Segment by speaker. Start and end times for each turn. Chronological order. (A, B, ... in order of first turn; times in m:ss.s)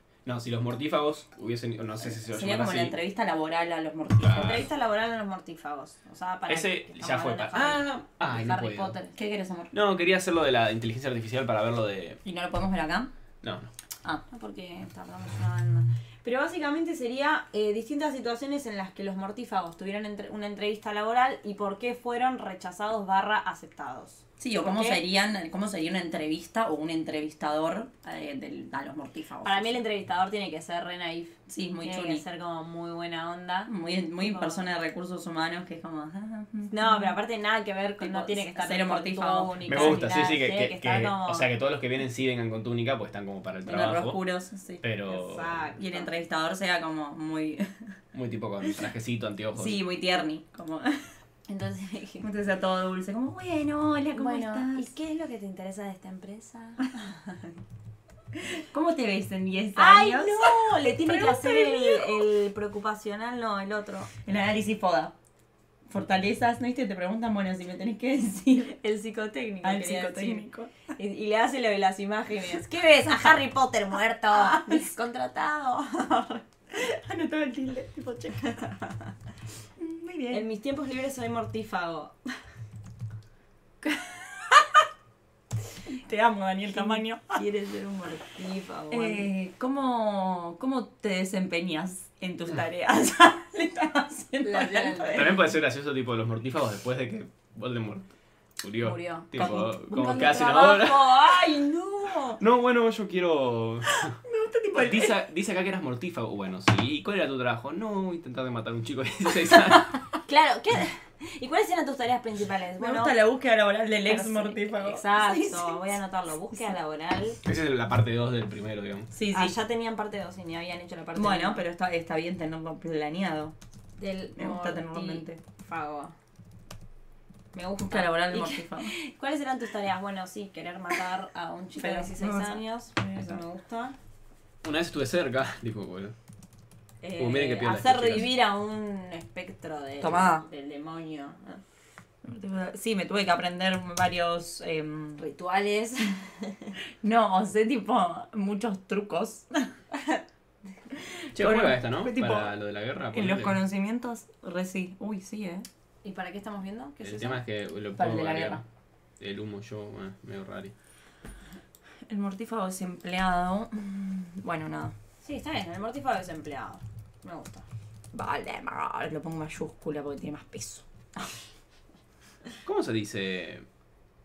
0:00.2-0:03.0 A
0:02.2-0:04.6 B
0:04.2-0:04.7 A
0:04.3-0:09.1 C
0:06.5-0:09.0 A
0:09.1-0:09.7 B
0:09.7-0:12.2 A
0:12.2-0:13.1 B
0:13.4-0:13.7 A
0:14.3-0:25.0 C
0:24.4-0:29.8 B
0:29.4-0:34.6 C
0:31.5-0:32.2 B
0:33.7-0:37.2 B
0:36.7-0:41.5 C
0:38.0-0:40.1 B
0:39.6-0:44.2 A
0:43.6-0:44.8 B
0:44.8-0:45.7 A
0:45.0-0:46.1 C
0:45.8-0:47.7 B
0:48.1-0:49.8 A
0:49.5-0:51.1 B
0:51.5-0:52.3 C
0:52.2-0:54.9 B
0:54.1-0:57.3 C
0:58.7-1:02.2 B
0:59.8-1:04.1 C
1:04.2-1:05.1 B
1:05.9-1:08.8 B
1:08.7-1:16.4 C
1:09.6-1:10.7 B
1:14.3-1:14.9 B
1:16.7-1:18.6 B
1:18.5-1:19.0 C
1:19.8-1:20.4 B
1:20.3-1:22.2 C
1:26.0-1:27.4 B
1:26.7-1:29.3 C
1:28.9-1:35.5 B
1:34.4-1:35.3 C
1:35.1-1:38.1 A
1:38.6-1:41.2 A
1:38.8-1:42.4 C
1:39.3-1:40.4 B
1:42.4-1:44.2 A
1:43.9-1:45.2 B
1:44.7-1:50.0 A
1:50.2-1:53.2 C
1:52.8-1:55.9 B
1:54.0-1:57.4 C
1:57.4-1:59.1 A
1:59.1-1:59.6 B
1:59.3-2:01.6 C
2:01.2-2:03.5 B
2:04.0-2:06.1 C
2:04.4-2:05.4 B
2:07.5-2:13.9 C
2:07.8-2:08.9 B
2:11.8-2:13.4 B
2:14.6-2:16.1 A
2:17.0-2:21.6 C
2:17.2-2:18.3 A
2:20.0-2:20.4 B
2:22.2-2:25.2 B
2:25.2-2:26.7 C
2:27.0-2:29.7 B
2:30.9-2:32.5 B
2:31.3-2:33.6 A
2:33.1-2:35.6 B
2:36.0-2:37.4 C
2:37.0-2:38.6 A
2:38.0-2:38.6 B
2:39.2-2:40.7 A
2:42.1-2:44.9 B
2:45.2-2:47.6 C
2:48.1-2:50.8 B
2:52.6-2:53.6 A